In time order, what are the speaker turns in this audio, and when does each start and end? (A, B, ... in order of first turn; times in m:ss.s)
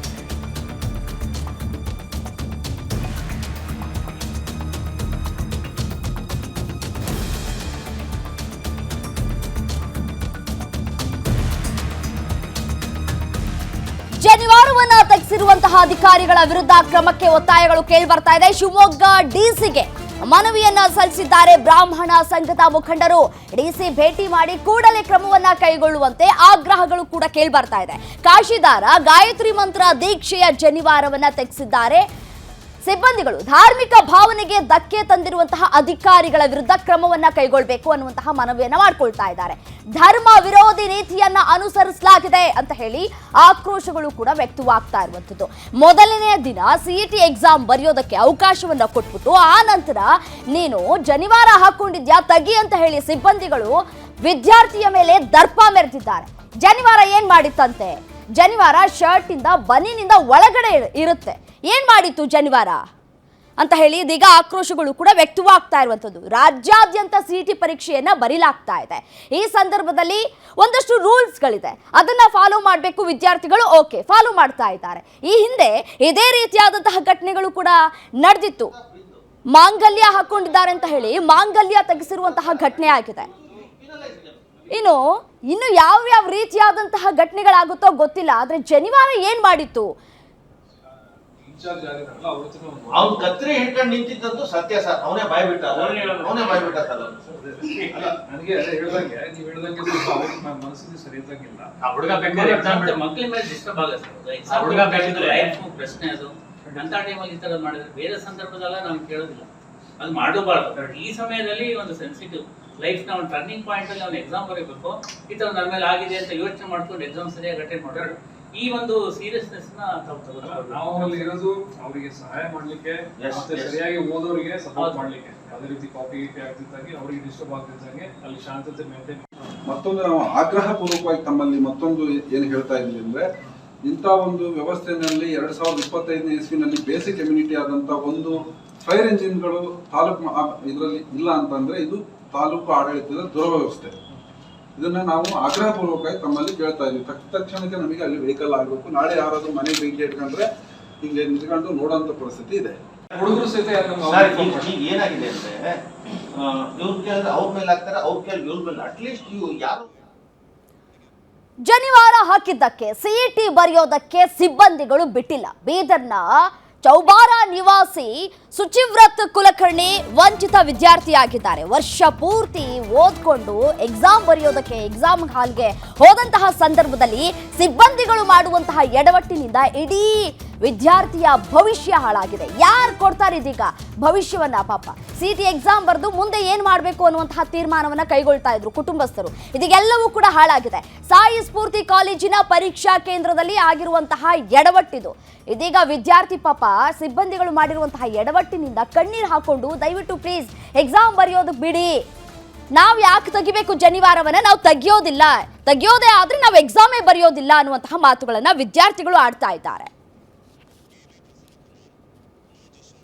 0:14.2-0:32.0 A
0:32.8-1:02.8 A
1:03.6-1:18.7 A
1:18.7-1:19.2 B
1:19.5-1:23.3 A
1:22.2-1:24.6 B
1:24.7-1:29.9 A
1:31.4-1:33.7 C
1:32.9-1:37.2 B
1:35.8-1:36.6 D
1:36.4-1:43.0 C
1:37.8-1:38.2 B
1:41.8-1:49.5 D
1:44.5-1:45.6 B
1:46.7-1:47.0 C
1:50.0-2:01.3 D
2:00.4-2:09.3 C
2:03.2-2:03.8 B
2:04.8-2:05.2 D
2:09.7-2:13.3 E
2:13.9-2:24.0 E
2:24.8-2:30.5 E
2:31.0-2:32.8 E
2:33.1-2:34.7 C
2:34.0-2:35.8 B
2:36.3-2:40.0 B
2:41.6-3:22.0 A
3:22.7-3:29.9 A